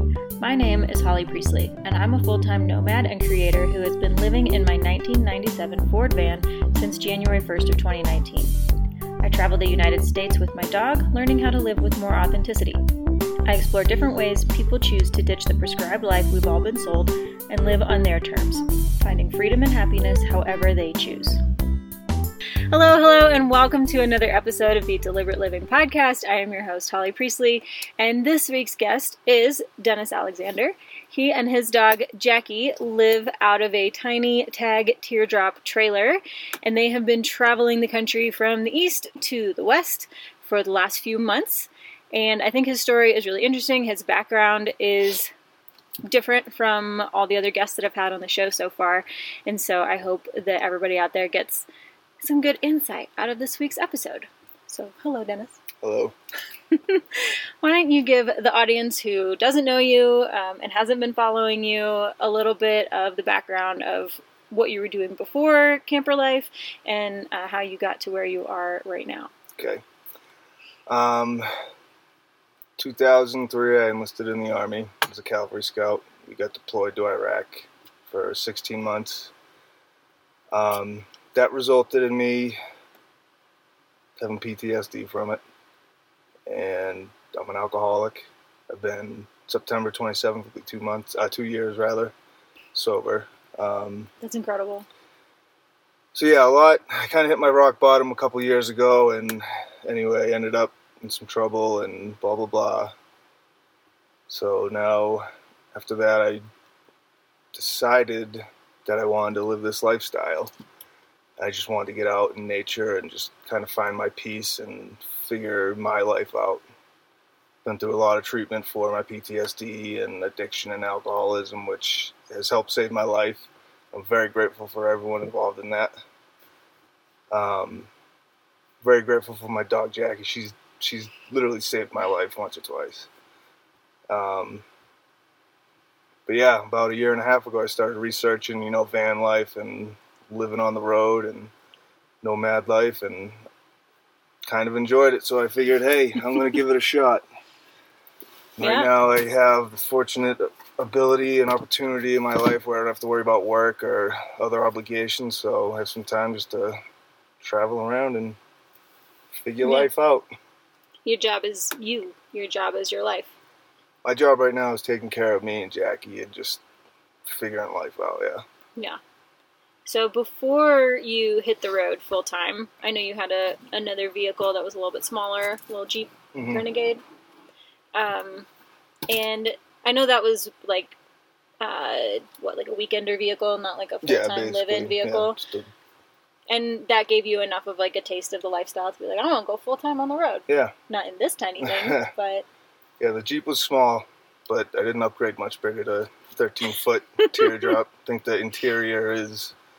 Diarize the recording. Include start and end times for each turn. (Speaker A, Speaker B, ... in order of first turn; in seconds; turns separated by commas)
Speaker A: 0.4-8.6, Speaker A: 9.2-12.8, Speaker A: 13.5-21.4, Speaker A: 22.7-45.3, Speaker A: 46.1-51.7, Speaker A: 52.2-55.6, Speaker B: 55.8-56.1, Speaker A: 56.7-69.3, Speaker B: 69.5-69.8, Speaker B: 70.9-71.5, Speaker B: 72.8-79.3, Speaker B: 80.5-82.6, Speaker B: 84.2-85.4, Speaker B: 86.5-92.1, Speaker B: 92.7-94.1, Speaker A: 94.2-94.9, Speaker B: 96.1-102.9, Speaker B: 104.3-106.4, Speaker B: 107.5-110.5, Speaker B: 111.4-116.6, Speaker B: 117.6-125.9, Speaker B: 127.3-127.9, Speaker B: 128.8-133.1, Speaker B: 134.1-134.6, Speaker B: 136.3-141.5, Speaker B: 142.2-143.4, Speaker B: 144.5-147.2, Speaker B: 148.6-156.8, Speaker A: 148.6-148.9, Speaker B: 157.4-158.4, Speaker B: 159.3-160.2, Speaker A: 159.6-159.9, Speaker A: 161.1-163.3, Speaker B: 164.1-166.6, Speaker B: 167.2-168.4, Speaker A: 169.9-177.0, Speaker B: 176.3-176.6, Speaker A: 177.9-178.5, Speaker A: 179.1-180.9, Speaker A: 181.6-185.4, Speaker B: 184.0-185.7, Speaker A: 186.5-192.5, Speaker B: 190.5-190.7, Speaker B: 191.6-192.1, Speaker B: 193.0-199.5, Speaker A: 197.2-197.7